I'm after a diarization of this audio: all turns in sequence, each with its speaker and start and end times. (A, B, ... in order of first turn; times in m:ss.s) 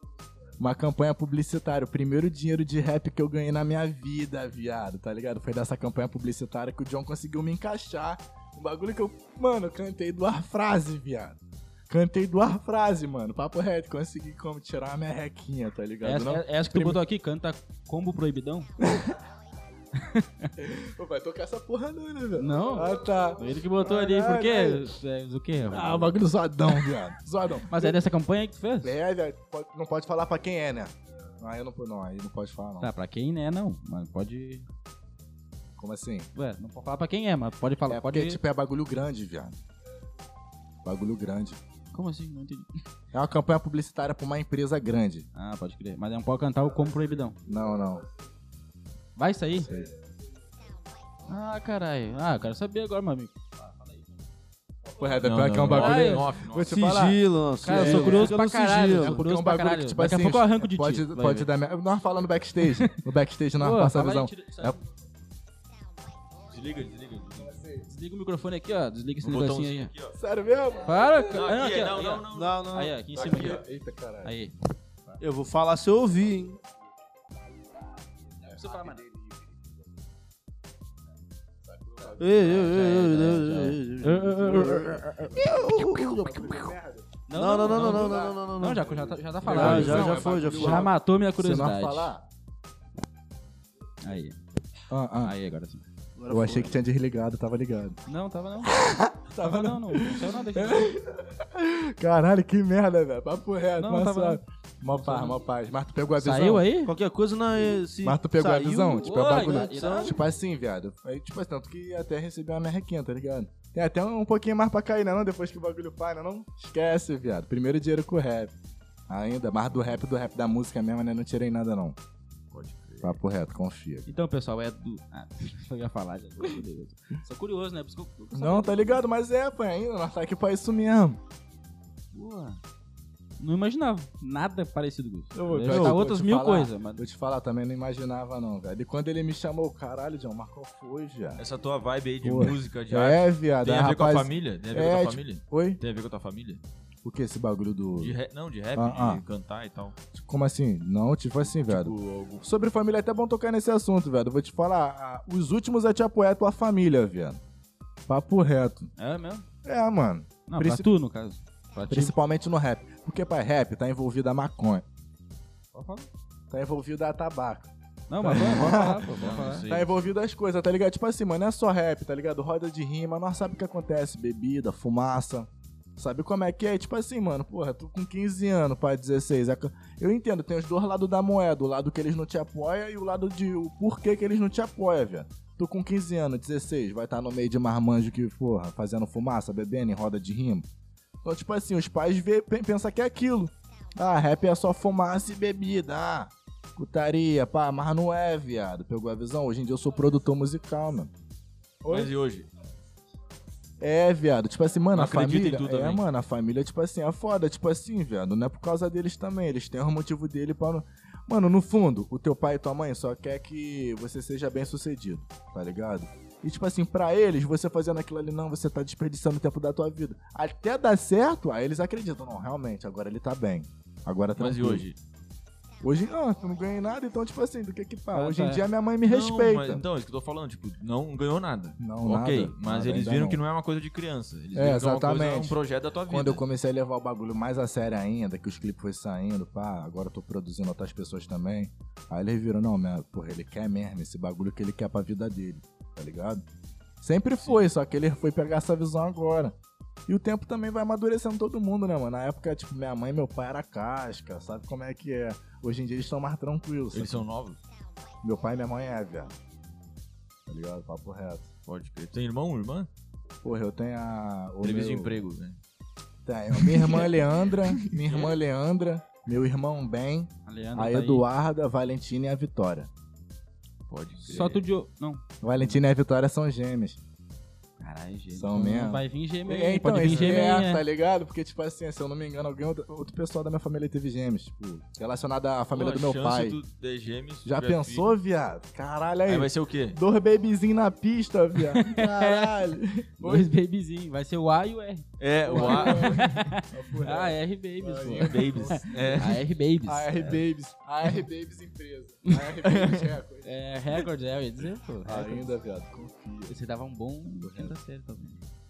0:00.6-0:11.4 A
0:11.9-0:17.0 A
0:16.0-0:18.7 B
0:18.8-0:19.2 A
0:20.0-0:20.5 B
0:20.6-0:24.9 A
0:22.4-0:26.2 B
0:25.7-0:28.0 A
0:27.5-0:29.0 B
0:28.8-0:32.9 A
0:32.8-0:34.7 B
0:35.8-0:36.3 A
0:36.4-0:38.4 B
0:37.9-0:39.6 A
0:40.8-0:41.6 A
0:41.9-0:42.7 B
0:43.1-0:45.3 A
0:45.4-0:47.4 B
0:47.4-0:48.1 A
0:49.2-0:49.7 B
0:49.6-0:49.9 A
0:51.3-0:53.4 B
0:54.9-0:58.4 A
0:55.2-0:56.8 C
0:55.7-0:56.3 B
0:56.6-0:59.2 D
0:57.6-1:01.5 B
0:58.9-1:04.8 A
1:02.6-1:03.0 B
1:03.6-1:04.8 B
1:06.5-1:07.6 C
1:07.5-1:07.8 A
1:07.9-1:09.9 B
1:09.2-1:10.2 C
1:10.1-1:11.4 A
1:10.8-1:13.6 B
1:11.3-1:13.6 C
1:12.3-1:13.0 D
1:13.2-1:14.3 A
1:14.2-1:14.5 B
1:15.2-1:16.6 D
1:18.4-1:19.8 A
1:18.4-1:19.0 B
1:21.6-1:22.8 A
1:22.2-1:26.7 D
1:22.4-1:25.3 B
1:25.3-1:32.3 A
1:27.3-1:32.1 B
1:27.3-1:28.9 D
1:29.4-1:30.9 D
1:29.7-1:30.0 C
1:34.0-1:34.4 B
1:34.9-1:35.3 A
1:35.2-1:35.8 B
1:36.2-1:36.8 D
1:36.3-1:38.0 A
1:38.1-1:38.8 B
1:38.7-1:46.7 A
1:39.4-1:40.9 B
1:43.8-1:45.4 B
1:46.2-1:46.9 B
1:46.8-1:50.2 D
1:47.6-1:58.5 A
1:49.0-1:50.2 B
1:59.1-2:02.0 A
2:02.5-2:03.2 C
2:03.0-2:04.2 A
2:04.1-2:09.0 B
2:08.3-2:11.2 A
2:12.1-2:12.6 B
2:13.4-2:17.0 B
2:15.3-2:21.4 A
2:15.7-2:16.0 C
2:21.4-2:26.6 C
2:22.2-2:25.8 A
2:27.0-2:28.2 A
2:28.0-2:30.0 C
2:28.8-2:29.2 A
2:30.1-2:37.4 A
2:31.6-2:32.4 C
2:38.1-2:38.9 A
2:39.0-2:39.4 B
2:39.6-2:40.9 A
2:40.5-2:42.2 B
2:41.9-2:44.8 A
2:45.7-2:46.1 B
2:46.5-3:10.7 A
2:48.1-2:49.6 B
2:48.6-2:50.1 C
3:11.2-3:21.1 A
3:21.8-3:22.1 A
3:21.9-3:22.5 C
3:23.8-3:44.9 A
3:24.9-3:26.0 C
3:44.4-3:45.0 C
3:45.8-3:49.8 A
3:48.1-3:48.6 B
3:49.0-3:56.4 C
3:51.8-3:53.4 A
3:54.6-4:06.4 A
4:07.0-4:09.6 A
4:10.1-4:17.3 A
4:16.9-4:17.6 C
4:18.2-4:19.4 A
4:20.5-4:21.5 A
4:21.7-4:22.9 C
4:23.4-4:25.2 A
4:24.6-4:25.6 C
4:26.2-4:32.9 A
4:26.5-4:28.4 C
4:30.4-4:31.3 B
4:33.9-4:34.6 C
4:34.3-4:35.7 B
4:35.4-4:37.0 A
4:37.8-4:40.8 B
4:38.3-4:46.6 A
4:40.0-4:40.4 C
4:45.7-4:48.2 C
4:47.4-4:53.5 A
4:49.3-4:50.0 C
4:51.7-4:52.6 B
4:53.2-5:00.4 B
4:55.2-4:56.3 C
4:55.5-4:59.3 A
4:58.2-4:59.4 C
4:59.9-5:03.6 A
5:02.6-5:03.2 C
5:03.4-5:05.5 B
5:05.0-5:06.6 A
5:06.5-5:08.4 B
5:07.4-5:07.7 A